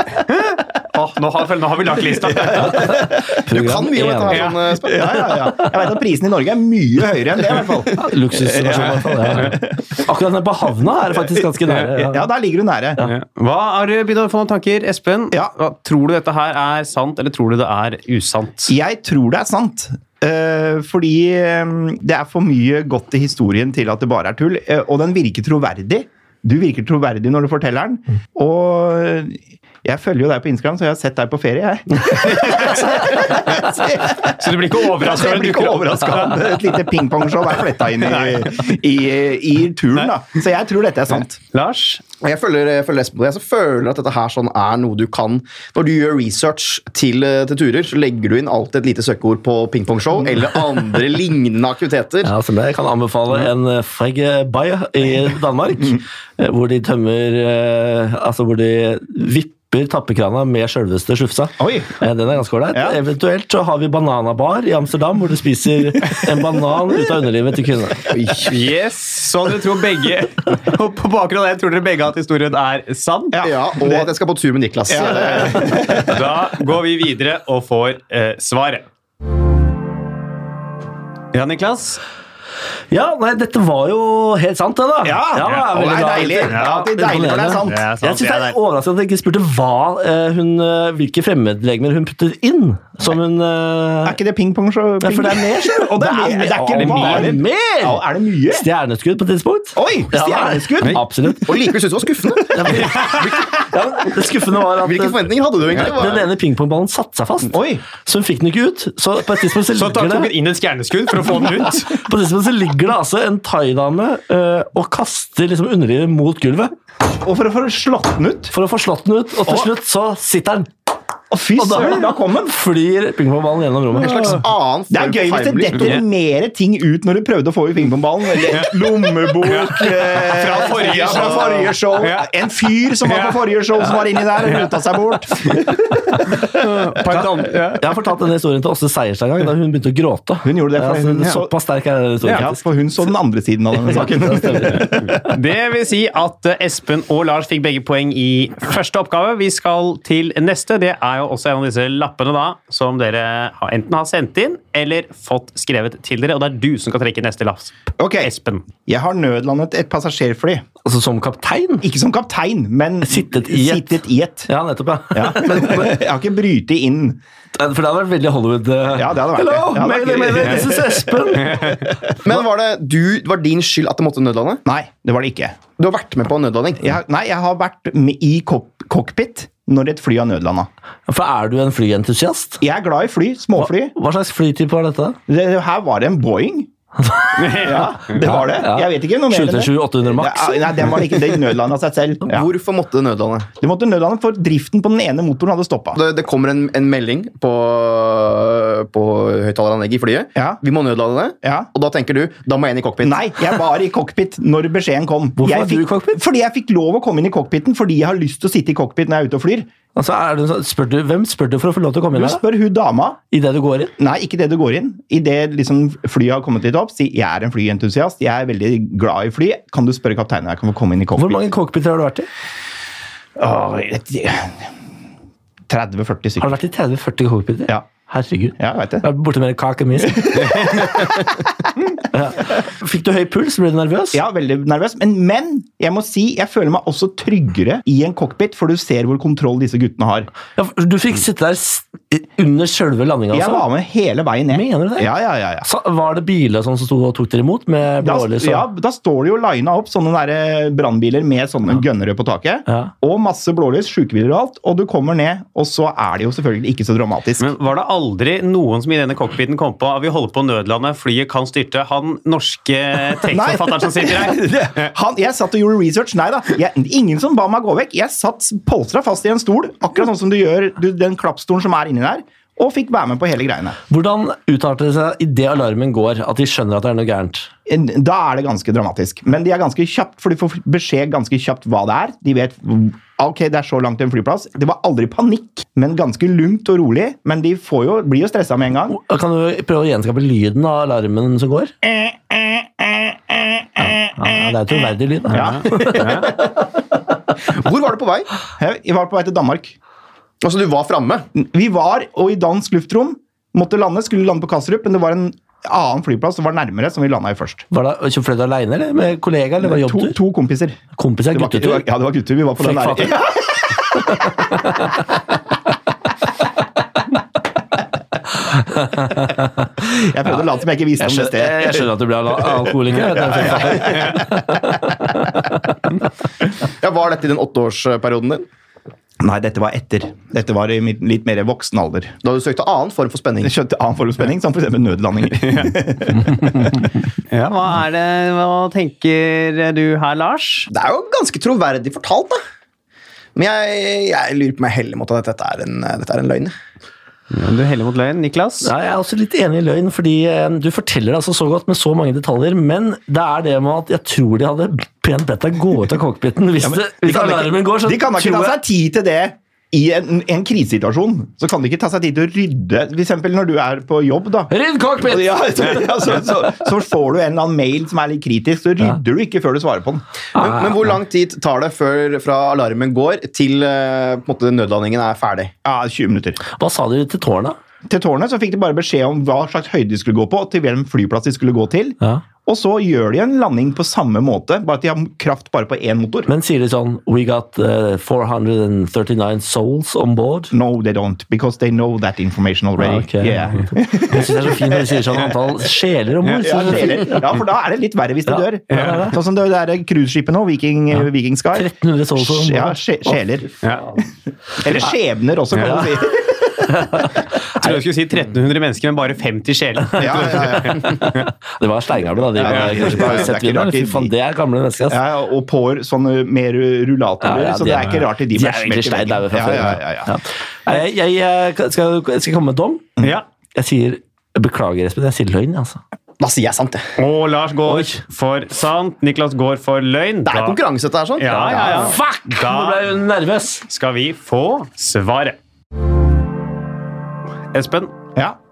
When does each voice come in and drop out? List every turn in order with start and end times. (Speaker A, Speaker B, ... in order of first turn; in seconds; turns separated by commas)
Speaker A: 0.3-3.0, Speaker B: 2.1-3.2, Speaker C: 2.6-4.5, Speaker D: 3.5-5.3, Speaker A: 4.3-4.6, Speaker B: 4.8-10.0, Speaker C: 5.1-5.7, Speaker C: 7.9-12.2, Speaker B: 11.0-13.0, Speaker A: 13.0-18.7, Speaker B: 18.7-41.4, Speaker A: 32.1-36.7, Speaker A: 38.0-38.5, Speaker A: 41.5-42.0, Speaker D: 42.2-52.3, Speaker C: 52.2-68.1, Speaker B: 61.6-61.9, Speaker B: 62.7-63.0, Speaker D: 68.1-68.5, Speaker A: 68.5-73.4, Speaker B: 73.3-74.1, Speaker D: 73.4-76.0, Speaker B: 74.9-76.4, Speaker A: 75.2-78.8, Speaker A: 81.3-82.0, Speaker C: 82.9-94.2, Speaker B: 85.0-87.9, Speaker A: 85.4-88.6, Speaker B: 94.0-98.7, Speaker C: 95.0-101.7, Speaker A: 96.7-97.3, Speaker B: 99.7-101.3, Speaker D: 101.4-103.4, Speaker C: 102.5-110.3, Speaker A: 102.9-103.3, Speaker D: 104.8-106.3, Speaker B: 107.5-107.8, Speaker A: 109.7-112.0, Speaker C: 111.9-116.7, Speaker B: 117.2-118.5, Speaker C: 118.5-120.7, Speaker B: 119.4-119.7, Speaker B: 121.3-122.5, Speaker C: 121.5-124.4, Speaker D: 124.0-125.9, Speaker B: 124.9-136.4, Speaker A: 128.4-132.3, Speaker D: 130.7-131.7, Speaker A: 133.0-133.4, Speaker A: 134.4-134.7, Speaker A: 135.4-135.7, Speaker A: 136.3-137.8, Speaker C: 137.1-142.6, Speaker B: 140.4-141.5, Speaker B: 142.3-145.3, Speaker C: 143.8-145.0, Speaker A: 145.1-158.7, Speaker B: 158.0-160.6, Speaker C: 160.8-161.9, Speaker B: 161.8-164.5, Speaker C: 163.0-166.0, Speaker B: 165.1-167.2, Speaker C: 167.5-171.8, Speaker B: 168.9-171.8, Speaker A: 171.4-171.9, Speaker D: 172.2-174.6, Speaker B: 174.6-175.6, Speaker D: 175.8-176.8, Speaker B: 176.8-180.7, Speaker C: 181.1-182.6, Speaker B: 182.6-183.9, Speaker C: 183.6-185.2, Speaker B: 185.3-186.7, Speaker C: 187.0-191.0, Speaker A: 187.4-188.1, Speaker B: 187.4-192.5, Speaker D: 192.3-193.5, Speaker B: 193.6-196.0, Speaker D: 195.9-203.3, Speaker B: 201.4-201.7, Speaker B: 203.0-209.7, Speaker C: 205.4-206.2, Speaker C: 209.9-212.4, Speaker B: 212.1-213.2, Speaker C: 213.3-213.9, Speaker B: 214.0-221.4, Speaker C: 221.2-222.3, Speaker B: 223.4-224.7, Speaker B: 225.7-226.6, Speaker C: 226.4-231.1, Speaker B: 228.6-229.1, Speaker B: 230.1-231.2, Speaker C: 232.1-234.2, Speaker B: 234.1-240.3, Speaker C: 240.5-243.7, Speaker B: 243.3-245.7, Speaker C: 244.5-245.1, Speaker C: 245.6-248.7, Speaker B: 248.0-257.5, Speaker A: 257.4-264.9, Speaker B: 263.3-273.8, Speaker C: 273.9-277.5, Speaker B: 277.6-289.0, Speaker C: 288.9-291.7, Speaker B: 291.8-294.5, Speaker C: 293.8-296.3, Speaker A: 295.3-296.4, Speaker B: 295.3-296.3, Speaker D: 296.1-296.4, Speaker D: 297.4-298.3, Speaker B: 298.6-299.7, Speaker D: 300.4-301.3, Speaker B: 301.3-307.6, Speaker C: 307.7-310.2, Speaker B: 309.6-310.8, Speaker C: 310.9-311.9, Speaker B: 311.3-314.4, Speaker C: 312.6-313.4, Speaker C: 314.0-314.9, Speaker C: 319.0-319.4, Speaker B: 319.8-324.4, Speaker C: 321.0-325.4, Speaker D: 326.8-328.4, Speaker B: 329.2-332.2, Speaker D: 332.2-333.5, Speaker B: 333.4-336.9, Speaker A: 335.4-335.7, Speaker A: 337.3-340.7, Speaker D: 340.7-342.4, Speaker D: 343.3-346.5, Speaker A: 347.3-348.7, Speaker C: 348.6-358.6, Speaker B: 356.6-370.0, Speaker C: 364.5-365.8, Speaker C: 370.4-370.9, Speaker D: 370.4-375.5, Speaker B: 375.6-376.4, Speaker C: 376.5-377.6, Speaker B: 377.9-386.3, Speaker C: 386.3-390.5, Speaker B: 390.5-395.3, Speaker C: 392.8-397.2, Speaker B: 396.4-403.5, Speaker C: 398.3-399.2, Speaker A: 398.7-399.0, Speaker C: 401.5-403.1, Speaker B: 404.6-407.1, Speaker C: 405.5-405.9, Speaker C: 406.7-407.1, Speaker A: 407.5-411.3, Speaker B: 409.9-410.9, Speaker C: 410.0-415.0, Speaker B: 412.3-414.1, Speaker A: 412.4-413.2, Speaker B: 414.9-420.1, Speaker C: 417.2-422.9, Speaker C: 423.5-425.8, Speaker D: 426.2-426.9, Speaker A: 427.0-430.6, Speaker C: 427.6-428.0, Speaker D: 430.2-431.9, Speaker A: 431.2-432.9, Speaker C: 431.6-433.6, Speaker A: 433.7-435.4, Speaker A: 437.5-437.9